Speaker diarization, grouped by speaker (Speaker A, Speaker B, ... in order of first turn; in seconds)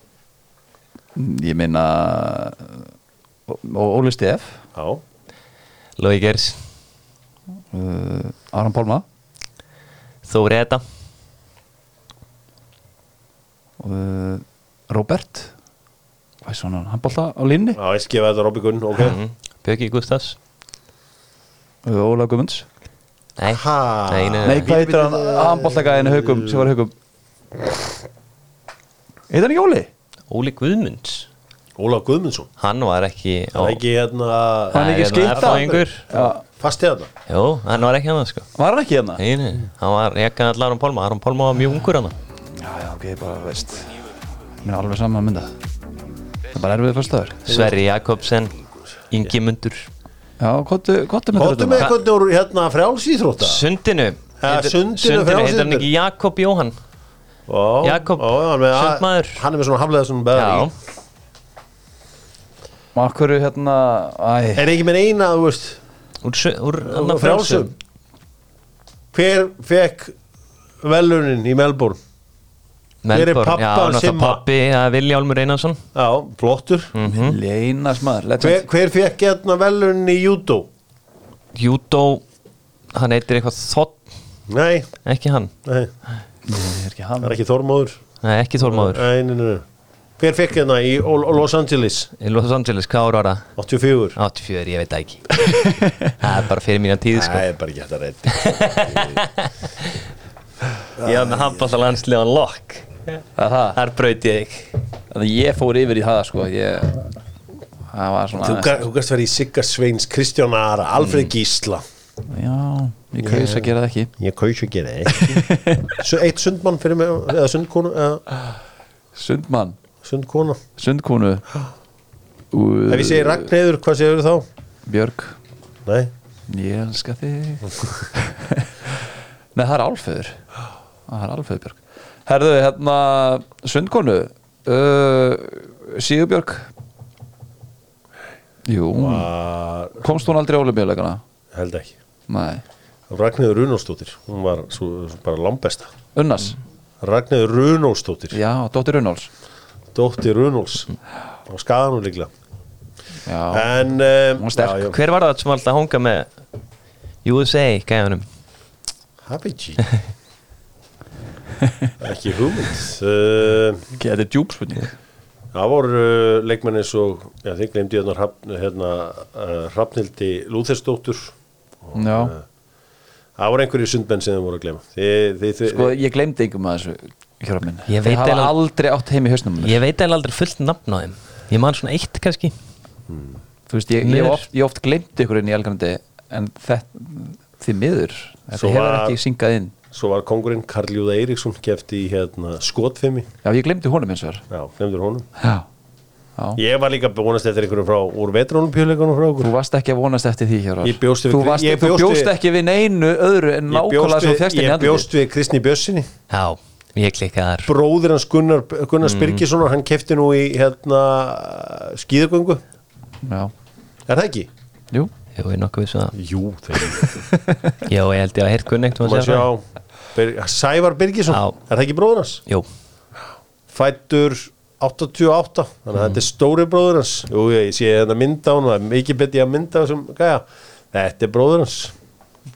Speaker A: 1.1-2.9, 3.5-4.6, 7.7-9.0, 13.8-15.5, 16.4-17.8, 21.8-22.6, 24.4-26.9, 29.3-29.9, 34.7-36.4, 38.5-39.2, 42.5-44.0, 44.6-45.5, 46.5-47.5, 50.4-51.9, 62.9-64.8, 77.0-78.6, 86.5-87.3, 95.6-95.9, 103.3-103.8, 105.1-107.1, 107.9-108.8, 112.3-114.1, 115.1-116.0, 119.1-119.8, 120.8-121.4, 122.5-123.5, 124.8-125.3, 126.5-130.4, 131.1-136.7, 138.7-139.3, 140.0-141.2, 142.3-142.6, 146.1-146.6, 148.3-149.3, 153.2-153.7, 154.3-154.9, 163.9-164.9, 171.9-172.3, 175.7-179.8, 183.7-189.7, 193.4-194.4, 195.4-195.7, 199.4-205.1, 213.2-213.5
Speaker B: 4.7-5.0, 17.8-19.2, 23.5-26.7, 31.8-32.5, 33.5-37.1, 47.5-47.7, 51.3-53.7, 54.4-55.9, 57.5-60.7, 64.5-65.8, 66.8-67.7, 69.1-70.1, 70.8-72.0, 73.1-74.4, 75.9-76.9, 78.4-80.7, 84.5-84.9, 85.6-85.9, 87.2-88.0, 88.7-89.6, 90.2-92.1, 93.6-94.2, 97.1-99.2, 101.0-101.7, 108.4-111.8, 113.2-118.2, 120.0-120.6, 122.9-124.5, 125.8-126.1, 138.9-140.2, 141.5-141.9, 143.1-145.9, 147.0-148.4, 149.9-150.9, 151.5-152.3, 153.5-155.0, 159.2-159.8, 162.0-163.8, 165.5-172.4, 173.4-175.9, 183.1-183.4, 188.6-189.2, 189.9-193.3, 194.5-195.3, 196.6-199.5, 200.8-202.3, 203.7-206.1, 207.7-212.6, 214.1-214.5, 216.1-217.2, 219.0-222.4, 223.7-231.9
Speaker C: 6.0-6.6, 10.2-10.8, 19.0-20.4, 23.4-24.7, 30.3-31.3, 32.6-33.8, 34.8-36.0, 37.3-38.5, 39.2-42.1, 47.5-48.5, 49.1-49.9, 53.4-56.7, 57.8-59.4, 60.3-60.7, 66.2-67.7, 73.0-75.8, 76.9-77.4, 81.5-82.2, 82.9-84.0, 85.0-85.5, 88.2-89.0, 92.2-93.5, 94.2-95.3, 96.0-97.4, 98.3-99.9, 101.0-103.2, 103.7-104.8, 154.8-156.3, 157.2-158.2, 177.9-178.5, 179.6-182.5, 184.0-184.4, 206.3-207.7, 209.0-209.4, 215.3-216.2, 217.8-219.5